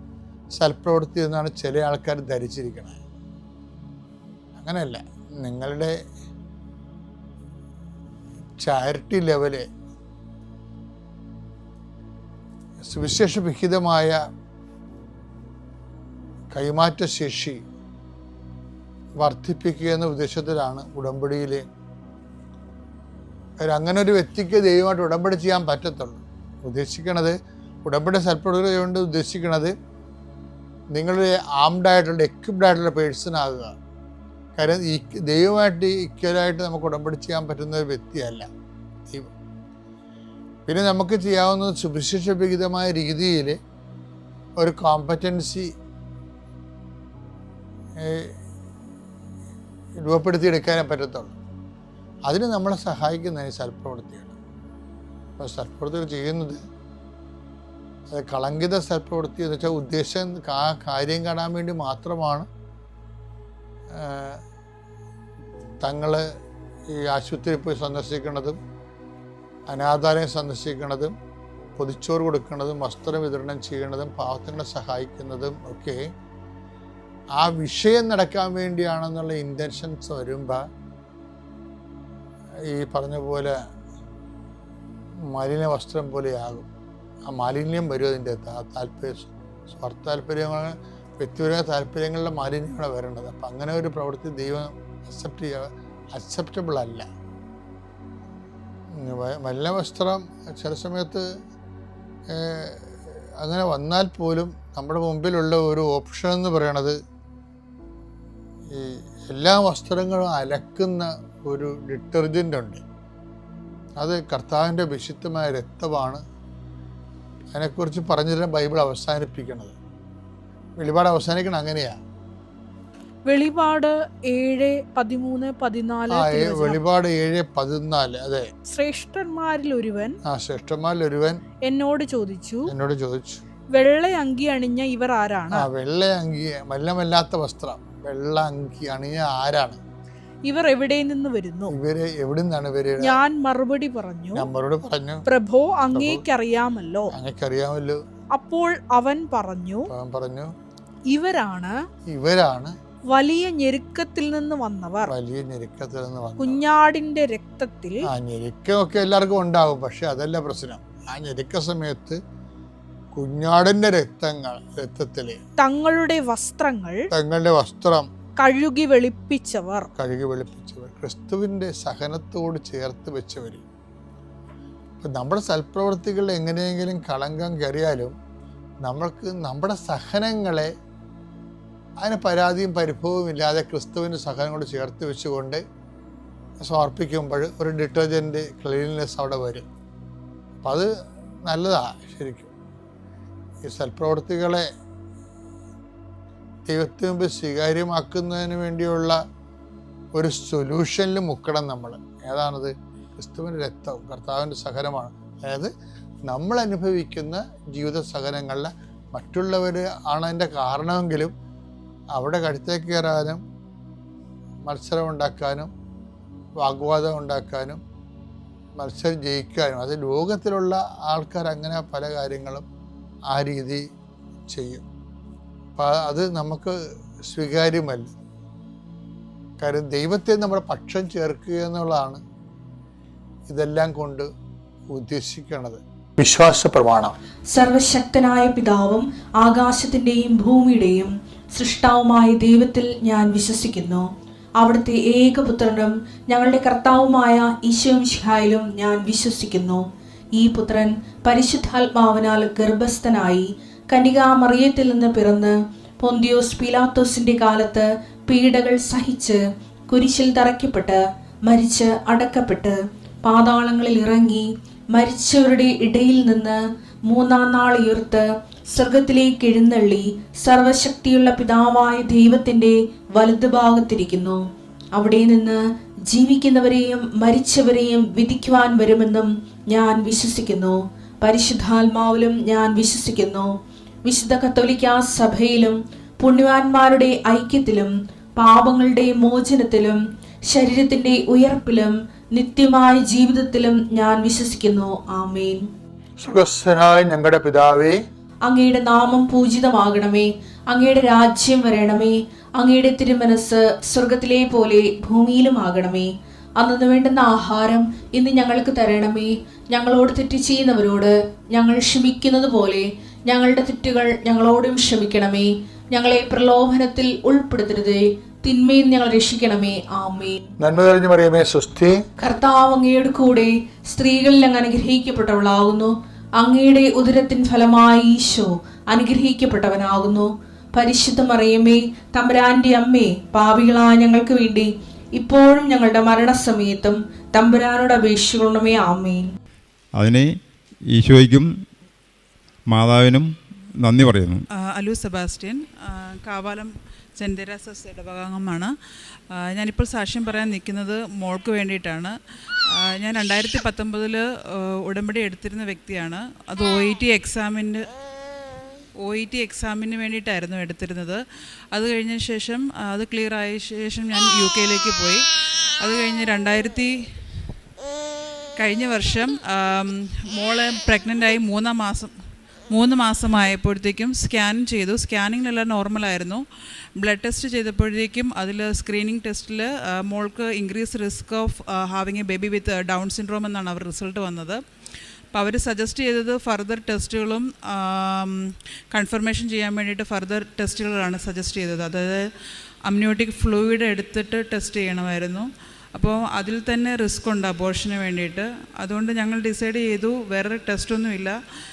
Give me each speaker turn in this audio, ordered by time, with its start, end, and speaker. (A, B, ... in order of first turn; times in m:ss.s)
0:00.6-0:03.0 A
0:04.6-0:06.0 A
0:08.6-0:09.7 A
0:12.9-0:14.2 A
0:16.5-0:17.6 A
0:19.2-0:21.6 A
0:23.6-0:29.7 A
0:30.9-0:33.7 A
0:34.6-0:38.5 A
0:40.7-0:43.6 A
0:44.6-0:45.7 A
0:48.0-0:48.3 A
0:50.0-0:51.4 A
0:52.3-0:54.3 A
0:55.4-0:56.6 A
0:58.1-1:02.5 A
1:03.9-1:04.4 A
1:05.8-1:06.2 A
1:06.9-1:08.6 A
1:09.7-1:11.1 A
1:11.8-1:16.1 A
1:17.4-1:20.7 A
1:22.7-1:23.6 A
1:25.3-1:26.7 A
1:27.3-1:37.1 A
1:39.0-1:41.2 A
1:42.3-1:47.0 A
1:48.7-1:52.8 A
1:54.0-1:56.2 A
1:57.5-1:59.8 A
2:00.8-2:02.0 A
2:03.3-2:06.8 B
2:06.1-2:08.5 A
2:08.7-2:10.2 B
2:10.2-2:11.4 A
2:11.6-2:12.6 B
2:12.7-2:13.4 A
2:13.7-2:15.7 B
2:15.5-2:19.8 A
2:20.5-2:21.7 B
2:21.7-2:23.2 A
2:23.0-2:24.5 B
2:24.3-2:25.2 A
2:25.3-2:27.1 B
2:25.9-2:26.2 A
2:27.1-2:28.0 A
2:28.3-2:29.9 B
2:29.9-2:30.5 A
2:31.1-2:31.7 B
2:32.1-2:32.7 A
2:33.1-2:35.1 B
2:35.1-2:36.6 A
2:36.4-2:38.0 B
2:38.1-2:42.2 A
2:43.1-2:45.4 A
2:45.6-2:47.0 B
2:47.1-2:48.1 A
2:48.4-2:49.9 B
2:50.0-2:53.6 A
2:55.0-2:58.1 A
2:58.8-3:00.7 A
3:02.0-3:05.6 A
3:06.6-3:09.7 A
3:10.6-3:10.9 A
3:11.4-3:12.5 A
3:13.7-3:14.7 A
3:16.7-3:19.2 A
3:20.2-3:25.7 A
3:26.3-3:31.3 A
3:32.2-3:33.4 A
3:34.7-3:35.7 A
3:36.6-3:37.8 A
3:38.8-3:42.6 A
3:43.3-3:43.8 A
3:44.5-3:44.8 A
3:45.8-3:46.8 A
3:47.3-3:48.1 A
3:49.6-3:52.2 A
3:53.5-3:54.3 A
3:54.9-3:57.1 A
3:57.5-4:04.1 C
4:04.6-4:09.8 C
4:10.4-4:19.4 C
4:19.9-4:34.4 C
4:34.9-4:35.6 C
4:36.1-4:43.5 C
4:44.0-4:55.7 C
4:56.2-4:58.0 A
4:58.4-5:20.4 C
5:20.6-5:22.0 A
5:22.2-5:39.3 C
5:40.0-5:40.4 D
5:40.9-5:41.5 D
5:42.7-5:44.4 D
5:44.6-5:48.7 E
5:49.3-5:52.2 E
5:52.7-5:57.9 E
5:59.0-6:01.2 E
6:01.7-6:05.2 E
6:05.8-6:06.9 E
6:08.6-6:12.1 E
6:12.7-6:16.4 E
6:17.0-6:24.6 E
6:25.3-6:32.2 E
6:32.8-6:41.4 E